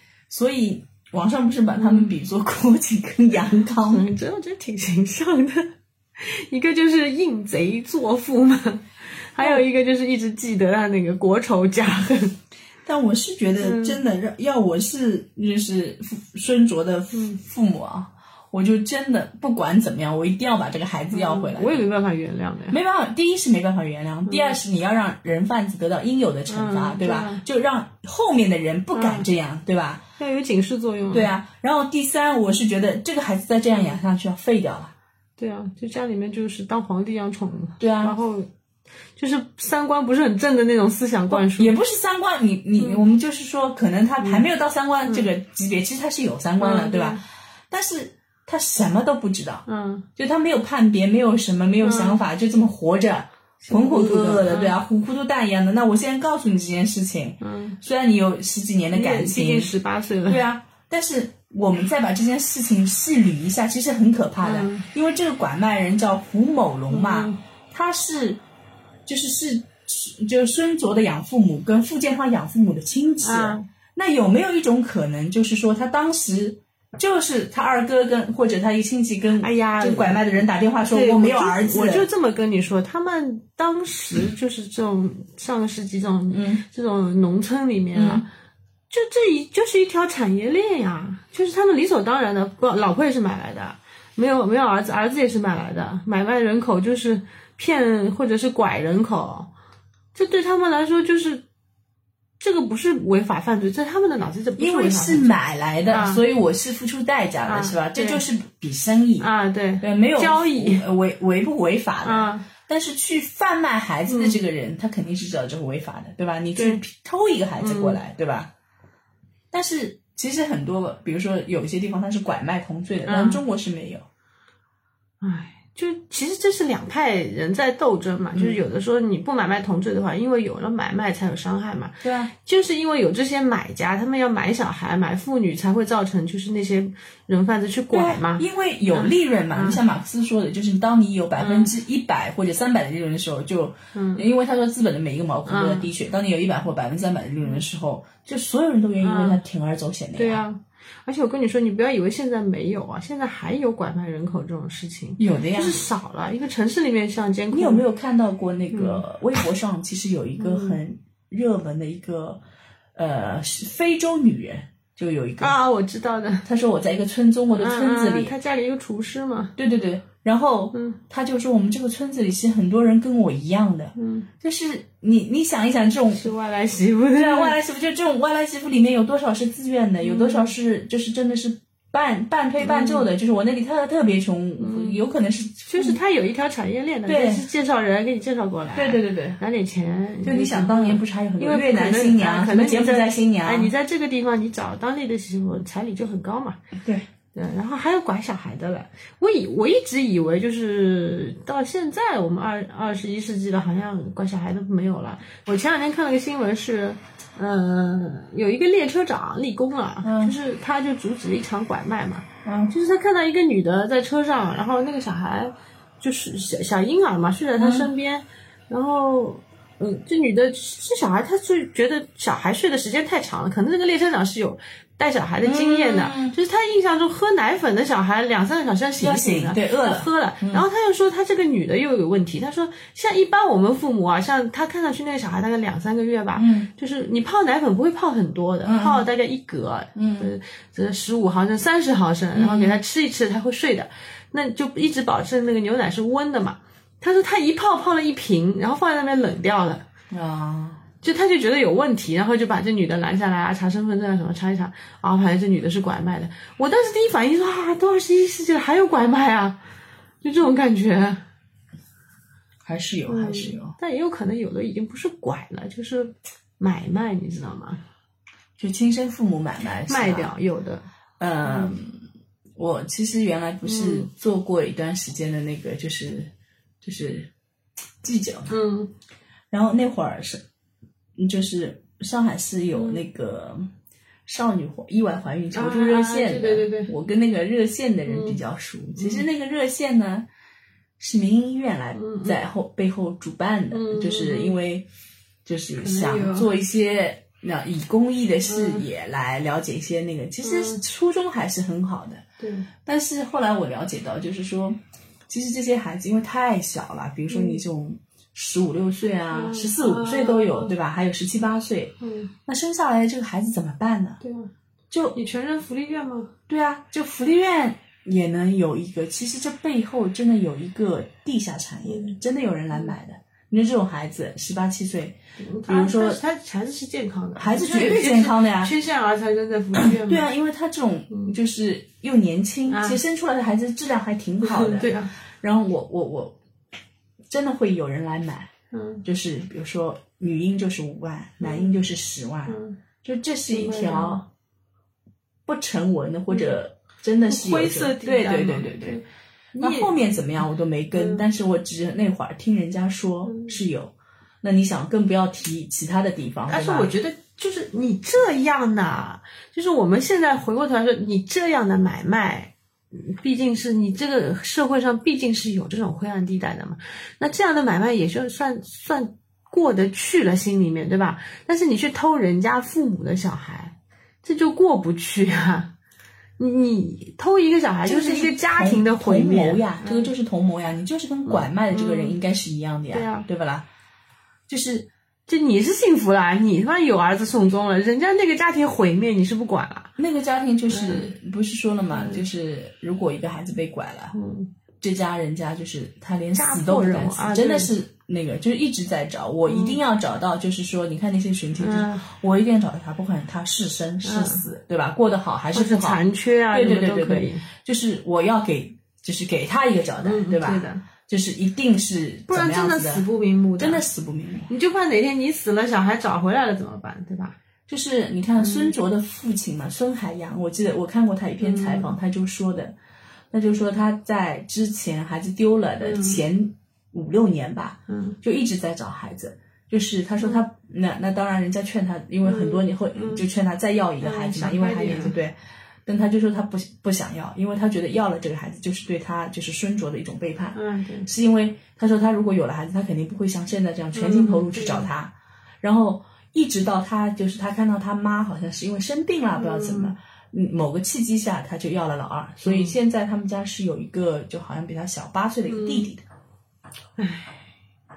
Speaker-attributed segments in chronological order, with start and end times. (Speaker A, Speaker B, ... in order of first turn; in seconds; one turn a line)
Speaker A: 0.3-4.0
Speaker B: 1.8-2.1
Speaker B: 3.9-12.4
Speaker A: 9.4-9.6
Speaker A: 12.8-21.9
Speaker B: 13.6-14.0
Speaker B: 17.1-17.4
Speaker B: 21.1-22.8
Speaker A: 22.7-30.0
Speaker B: 24.3-24.6
Speaker B: 26.5-27.4
Speaker B: 28.9-29.3
Speaker B: 30.2-31.3
Speaker A: 31.1-34.9
Speaker B: 35.4-38.5
Speaker A: 37.8-38.2
Speaker B: 39.2-41.8
Speaker A: 41.3-49.6
Speaker B: 42.8-43.1
Speaker B: 44.2-44.5
Speaker B: 46.6-47.2
Speaker B: 49.7-50.1
Speaker A: 50.2-59.7
Speaker B: 51.8-52.2
Speaker B: 53.6-54.8
Speaker B: 57.4-57.8
Speaker B: 58.9-60.4
Speaker A: 60.3-68.4
Speaker B: 64.4-64.9
Speaker B: 66.9-67.4
Speaker A: 69.1-82.1
Speaker B: 73.2-73.6
Speaker B: 79.4-80.2
Speaker B: 80.9-88.3
Speaker A: 86.3-86.6
Speaker A: 88.0-88.2
Speaker B: 88.9-99.5
Speaker B: 100.1-101.4
Speaker B: 102.4-105.4
Speaker A: 104.6-109.3
Speaker B: 105.9-106.2
Speaker B: 107.5-108.2
Speaker B: 109.2-110.8
Speaker A: 109.8-118.5
Speaker B: 112.0-112.5
Speaker B: 114.1-114.4
Speaker B: 116.6-116.8
Speaker B: 117.6-118.0
Speaker A: 119.5-124.0
Speaker B: 123.1-123.4
Speaker B: 125.2-139.8
Speaker A: 128.3-128.6
Speaker A: 132.0-132.3
Speaker A: 137.9-150.4
Speaker B: 141.4-141.7
Speaker B: 143.9-144.2
Speaker B: 145.5-145.9
Speaker B: 149.0-149.4
Speaker B: 150.2-157.8
Speaker A: 155.2-155.8
Speaker A: 157.5-162.4
Speaker B: 158.7-159.1
Speaker B: 160.4-160.8
Speaker A: 162.9-165.6
Speaker B: 165.4-166.5
Speaker A: 166.4-168.3
Speaker B: 167.6-169.6
Speaker A: 169.6-176.2
Speaker B: 170.7-171.0
Speaker B: 174.0-174.3
Speaker B: 176.1-177.6
Speaker A: 177.1-186.0
Speaker B: 180.0-180.5
Speaker B: 182.6-183.1
Speaker B: 184.6-185.0
Speaker B: 185.7-196.6
Speaker A: 187.1-187.4
Speaker A: 188.8-189.4
Speaker A: 190.2-193.7
Speaker A: 196.8-197.1
Speaker B: 197.3-249.9
Speaker A: 210.0-210.4
Speaker A: 212.4-212.7
Speaker A: 217.6-217.9
Speaker A: 225.4-226.4
Speaker A: 229.0-230.6
Speaker A: 236.4-236.7
Speaker A: 238.7-239.1
Speaker A: 240.0-240.3
Speaker A: 242.3-242.8
Speaker A: 250.1-250.8
Speaker B: 251.0-259.6
Speaker B: 260.2-261.2
Speaker A: 262.6-263.8
Speaker B: 263.1-267.8
Speaker A: 268.6-270.3
Speaker B: 269.9-270.9
Speaker A: 271.2-272.0
Speaker B: 271.4-271.8
Speaker A: 272.6-276.3
Speaker B: 273.6-274.1
Speaker A: 276.8-277.3
Speaker A: 278.0-278.5
Speaker B: 278.5-278.9
Speaker A: 279.5-280.4
Speaker A: 281.2-283.7
Speaker B: 282.7-283.0
Speaker A: 284.3-290.3
Speaker B: 285.5-286.9
Speaker B: 288.1-288.4
Speaker B: 289.0-289.2
Speaker A: 291.0-294.9
Speaker B: 292.0-292.4
Speaker B: 293.7-294.6
Speaker A: 295.4-302.2
Speaker B: 295.7-296.5
Speaker B: 298.5-298.9
Speaker B: 300.4-300.8
Speaker B: 302.4-302.7
Speaker A: 302.8-311.9
Speaker B: 307.3-307.6
Speaker B: 309.3-310.7
Speaker B: 312.0-312.3
Speaker A: 312.5-314.2
Speaker B: 314.2-314.5
Speaker A: 314.9-315.2
Speaker B: 315.1-316.3
Speaker A: 316.5-326.2
Speaker B: 321.9-322.2
Speaker B: 325.4-330.3
Speaker A: 327.4-328.7
Speaker A: 329.8-336.4
Speaker B: 332.7-333.0
Speaker B: 334.4-335.1
Speaker A: 337.3-338.5
Speaker B: 338.7-339.0
Speaker A: 339.0-344.3
Speaker B: 341.4-341.7
Speaker B: 342.5-342.8
Speaker B: 343.5-344.2
Speaker A: 345.5-349.0
Speaker B: 346.3-346.6
Speaker B: 347.3-349.9
Speaker A: 349.6-356.9
Speaker B: 350.9-351.2
Speaker B: 353.3-353.5
Speaker B: 356.5-375.7
Speaker B: 376.4-380.1
Speaker A: 377.9-383.7
Speaker B: 381.3-382.2
Speaker B: 382.9-383.3
Speaker A: 384.5-384.9
Speaker B: 385.3-389.9
Speaker A: 390.0-394.1
Speaker B: 390.7-391.1
Speaker B: 391.9-392.2
Speaker B: 394.1-394.5
Speaker A: 394.8-406.0
Speaker B: 396.3-397.7
Speaker B: 399.5-399.8
Speaker B: 401.6-402.0
Speaker B: 404.0-404.4
Speaker B: 405.5-407.5
Speaker A: 406.5-413.0
Speaker B: 410.0-410.8
Speaker B: 412.3-413.8
Speaker A: 413.6-414.5
Speaker B: 414.5-417.4
Speaker A: 417.7-422.8
Speaker B: 418.4-418.7
Speaker B: 421.4-421.9
Speaker A: 423.3-456.0
Speaker B: 425.8-426.2
Speaker B: 427.9-428.2
Speaker B: 432.2-433.2
Speaker B: 434.0-435.1
Speaker B: 440.6-441.1
Speaker B: 443.9-444.9
Speaker B: 449.4-449.9
Speaker B: 452.4-452.8
Speaker B: 455.5-455.9
Speaker B: 457.0-457.4